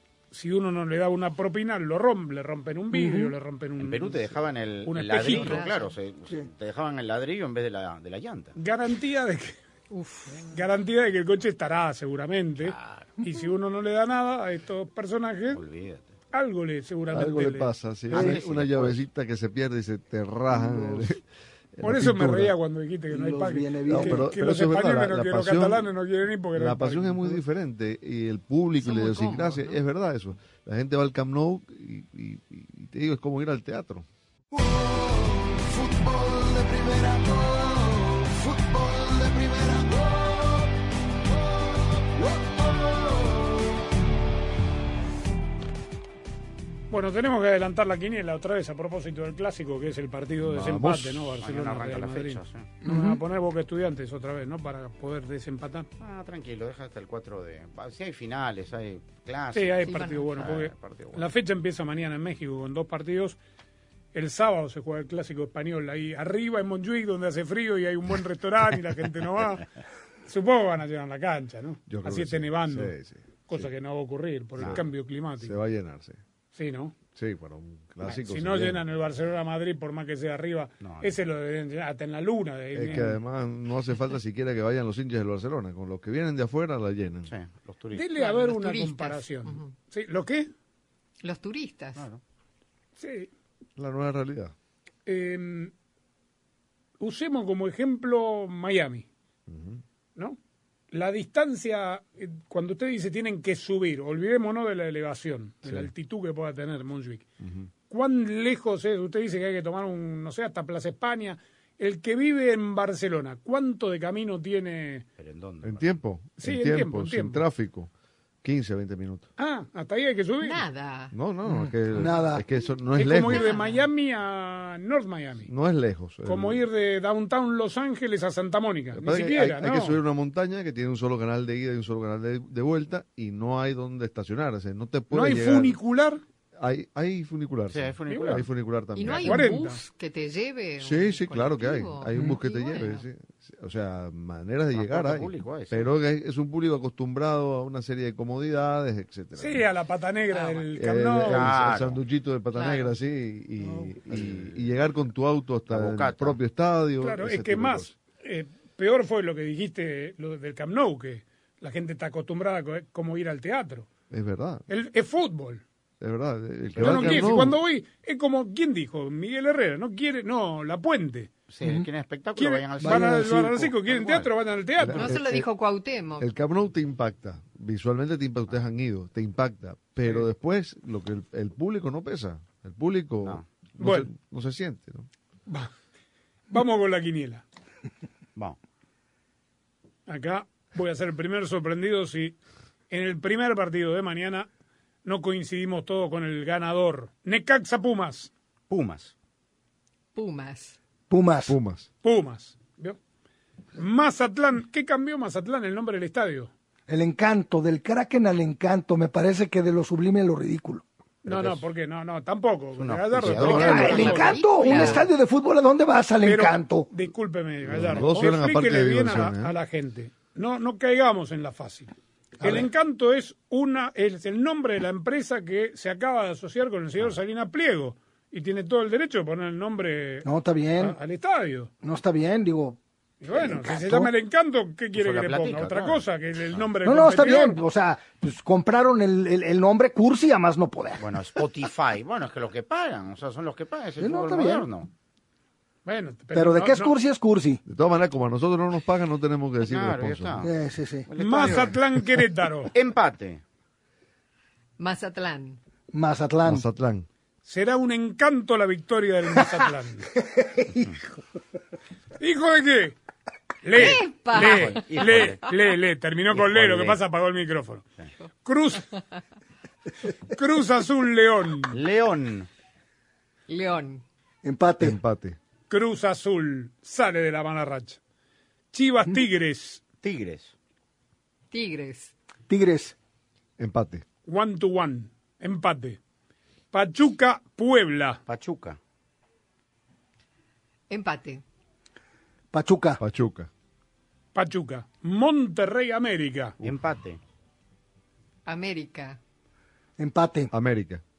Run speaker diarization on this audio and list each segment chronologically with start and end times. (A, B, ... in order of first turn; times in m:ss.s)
0:00.3-0:05.6 A
0:02.9-0:03.3 B
0:03.8-0:08.6 C
0:05.2-0:06.0 D
0:08.6-0:09.6 A
0:09.9-0:10.5 D
0:10.5-0:15.6 A
0:12.6-0:13.1 C
0:15.5-0:16.1 C
0:16.3-0:17.7 A
0:17.1-0:22.6 E
0:18.1-0:19.0 C
0:18.1-0:18.4 B
0:20.5-0:21.1 B
0:21.8-0:27.4 A
0:23.1-0:24.3 B
0:23.9-0:25.9 E
0:26.5-0:34.1 E
0:28.8-0:29.6 D
0:34.5-0:40.7 F
0:41.3-0:43.6 F
0:46.9-0:55.9 A
0:50.4-0:51.3 E
0:51.4-0:52.7 C
0:52.8-0:53.2 B
0:56.0-1:01.3 C
0:59.5-1:03.4 A
0:59.8-1:00.5 D
1:04.1-1:09.7 A
1:10.2-1:12.9 A
1:11.9-1:13.7 E
1:13.5-1:15.6 A
1:14.6-1:14.8 C
1:15.4-1:16.2 E
1:16.6-1:17.0 A
1:17.2-1:18.8 E
1:18.0-1:23.2 A
1:20.8-1:21.2 C
1:22.8-1:27.3 E
1:27.3-1:28.1 C
1:27.9-1:30.5 A
1:28.2-1:29.7 D
1:31.2-1:32.1 D
1:32.0-1:32.2 C
1:33.0-1:33.3 A
1:33.8-1:34.5 E
1:35.1-1:35.7 A
1:37.0-1:39.1 A
1:39.5-1:39.8 E
1:40.9-1:47.3 A
1:47.4-1:47.7 E
1:47.9-1:55.1 A
1:55.2-1:56.0 C
1:55.6-1:57.9 E
1:56.4-1:57.4 A
1:58.4-1:59.3 E
1:59.4-2:00.6 A
2:00.4-2:01.1 D
2:01.1-2:03.5 E
2:01.5-2:02.4 B
2:03.0-2:05.5 A
2:03.2-2:03.8 D
2:05.5-2:06.6 E
2:06.2-2:10.0 A
2:08.9-2:15.8 E
2:15.1-2:16.2 A
2:16.6-2:19.4 E
2:17.7-2:18.5 C
2:18.1-2:18.4 A
2:19.0-2:23.0 D
2:19.0-2:19.8 A
2:20.8-2:29.7 E
2:24.7-2:25.9 C
2:29.4-2:31.6 A
2:30.3-2:30.7 D
2:30.8-2:37.9 E
2:31.2-2:32.0 C
2:32.5-2:32.9 D
2:33.6-2:33.9 B
2:34.1-2:34.6 C
2:35.7-2:36.4 C
2:37.0-2:43.9 A
2:44.1-2:44.6 E
2:44.7-2:45.6 A
2:46.0-2:47.6 E
2:46.7-2:47.4 C
2:46.8-2:51.3 A
2:51.5-2:54.3 C
2:52.4-2:55.1 A
2:52.8-2:53.4 B
2:54.8-2:55.5 E
2:54.9-2:56.3 D
2:56.2-3:05.1 E
3:03.8-3:04.1 A
3:06.5-3:07.4 A
3:10.1-3:12.4 A
3:12.9-3:14.5 A
3:15.0-3:18.3 A
3:18.7-3:19.1 C
3:20.2-3:20.8 D
3:21.1-3:21.6 B
3:21.5-3:21.9 E
3:22.0-3:23.0 A
3:23.8-3:26.5 A
3:26.9-3:30.8 B
3:31.2-3:31.6 E
3:31.2-3:35.1 A
3:32.8-3:34.4 C
3:33.2-3:33.9 E
3:33.5-3:36.9 B
3:33.6-3:35.1 D
3:36.2-3:51.7 A
3:37.7-3:39.5 E
3:37.9-3:38.4 C
3:50.2-3:51.0 B
3:51.8-3:52.8 B
3:53.2-3:57.6 A
3:53.3-3:54.1 B
3:55.0-3:56.0 C
3:56.8-4:01.3 B
4:01.0-4:04.9 C
4:04.0-4:04.7 B
4:05.8-4:06.9 A
4:06.3-4:07.6 B
4:07.7-4:10.5 E
4:09.6-4:10.5 C
4:10.4-4:11.5 B
4:11.1-4:11.8 C
4:11.2-4:12.7 A
4:12.7-4:13.4 C
4:14.8-4:15.6 D
4:15.9-4:16.6 B
4:16.5-4:17.1 E
4:17.4-4:20.1 A
4:20.2-4:20.9 B
4:22.2-4:23.0 A
4:23.6-4:27.8 A
4:23.8-4:25.4 D
4:24.3-4:25.5 C
4:26.3-4:27.0 C
4:28.4-4:29.0 A
4:30.1-4:31.8 A
4:31.7-4:32.5 C
4:33.5-4:34.0 D
4:34.4-4:35.0 B
4:34.8-4:35.4 E
4:35.7-4:38.0 A
4:38.7-4:39.8 A
4:40.0-4:40.5 C
4:41.5-4:42.1 D
4:42.5-4:43.0 B
4:43.6-4:44.0 E
4:44.3-4:46.0 A
4:46.7-4:48.2 A
4:48.3-4:48.8 C
4:50.9-4:51.4 D
4:52.5-4:53.0 B
4:53.0-4:53.5 E
4:54.4-4:56.6 A
4:56.6-4:57.2 C
4:58.5-4:59.2 D
5:00.0-5:00.5 B
5:00.5-5:01.0 E